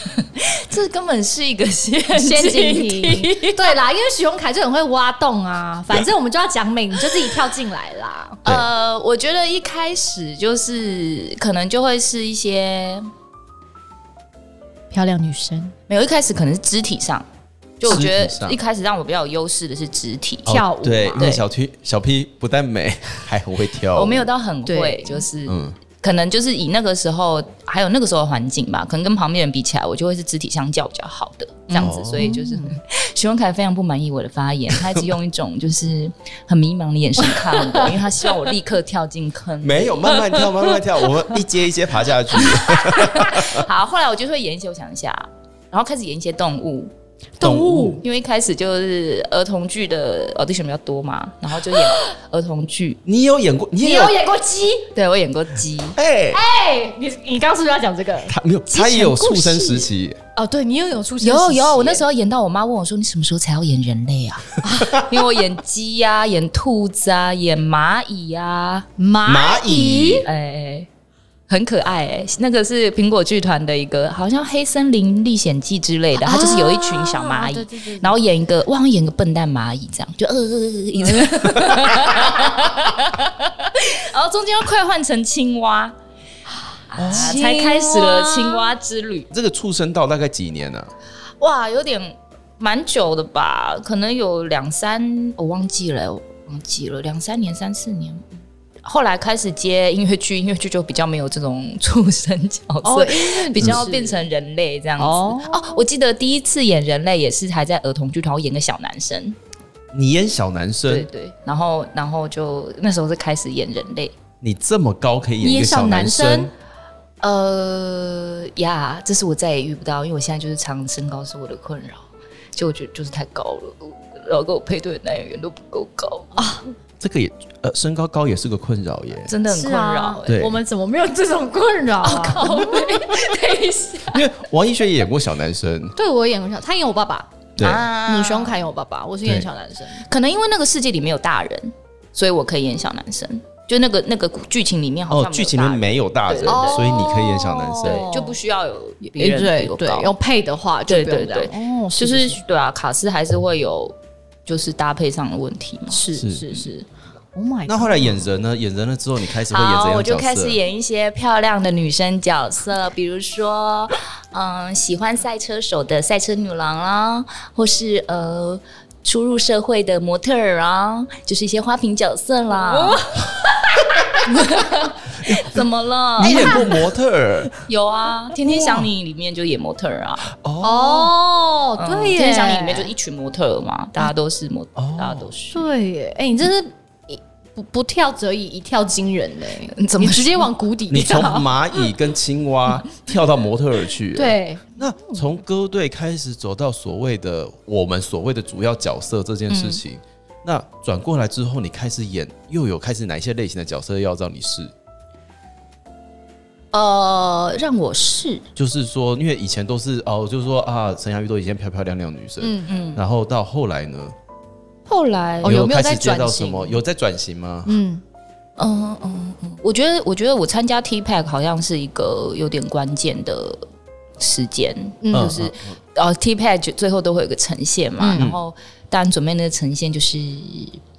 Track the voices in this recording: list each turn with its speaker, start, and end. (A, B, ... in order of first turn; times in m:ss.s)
0:00.2-0:03.7 A
0:02.1-0:08.4 B
0:08.4-0:13.1 A
0:14.9-0:15.8 B
0:15.9-0:17.3 A
0:17.8-0:20.6 A
0:17.8-0:18.6 C
0:20.5-0:24.3 C
0:20.5-0:21.4 B
0:24.0-0:40.4 A
0:24.7-0:25.3 B
0:25.5-0:25.8 C
0:31.7-0:32.8 B
0:31.8-0:32.3 C
0:34.8-0:35.2 C
0:39.6-0:43.6 C
0:42.4-0:46.9 A
0:47.4-0:48.0 B
0:47.4-0:48.0 C
0:48.0-0:53.0 A
0:53.1-0:54.2 C
0:53.8-0:54.9 B
0:54.9-0:56.0 A
0:56.0-0:56.4 C
0:56.3-0:58.4 B
0:58.3-1:00.2 C
0:58.7-0:59.8 A
1:00.4-1:02.0 B
1:01.2-1:08.9 A
1:04.6-1:05.0 B
1:09.0-1:10.3 B
1:09.2-1:10.3 C
1:10.2-1:10.9 A
1:11.5-1:26.0 A
1:16.2-1:18.2 B
1:26.9-1:29.3 A
1:27.0-1:27.4 C
1:27.0-1:28.6 B
1:29.3-1:30.9 C
1:31.4-1:38.3 A
1:38.8-1:49.4 A
1:42.8-1:44.2 B
1:45.0-1:45.6 B
1:49.9-1:51.1 C
1:50.9-1:54.2 A
1:54.4-1:56.5 C
1:55.4-1:56.5 B
1:57.2-2:06.6 A
2:06.4-2:06.6 B
2:07.0-2:09.3 C
2:09.3-2:10.3 A
2:09.5-2:13.1 B
2:10.3-2:10.6 C
2:12.0-2:14.2 A
2:14.1-2:16.0 C
2:16.0-2:17.3 B
2:17.6-2:17.9 C
2:17.6-2:18.6 A
2:18.0-2:20.0 B
2:20.1-2:26.9 A
2:25.1-2:28.1 C
2:26.5-2:28.4 B
2:27.8-2:30.1 A
2:29.0-2:32.4 B
2:30.9-2:34.0 A
2:34.5-2:36.0 A
2:35.9-2:38.2 B
2:36.1-2:36.7 C
2:37.7-2:40.6 C
2:39.5-2:53.0 A
2:52.5-2:53.3 B
2:53.8-2:56.6 A
2:55.2-2:55.6 C
2:56.2-2:57.5 C
2:56.2-2:56.8 B
2:57.6-3:00.3 A
2:58.5-2:58.9 C
3:00.3-3:01.1 C
3:00.6-3:02.9 B
3:01.8-3:05.7 A
3:04.8-3:05.3 C
3:05.5-3:11.5 B
3:09.8-3:10.5 A
3:10.9-3:24.7 C
3:14.1-3:15.2 B
3:19.5-3:19.8 A
3:26.7-3:28.4 A
3:28.6-3:34.2 C
3:32.4-3:32.7 B
3:32.7-3:33.0 A
3:34.9-3:35.7 A
3:35.4-3:36.8 B
3:35.4-3:37.8 C
3:37.7-3:38.0 B
3:38.6-3:43.6 A
3:44.2-3:50.8 A
3:45.0-3:45.4 B
3:45.1-3:45.8 C
3:48.0-3:48.3 B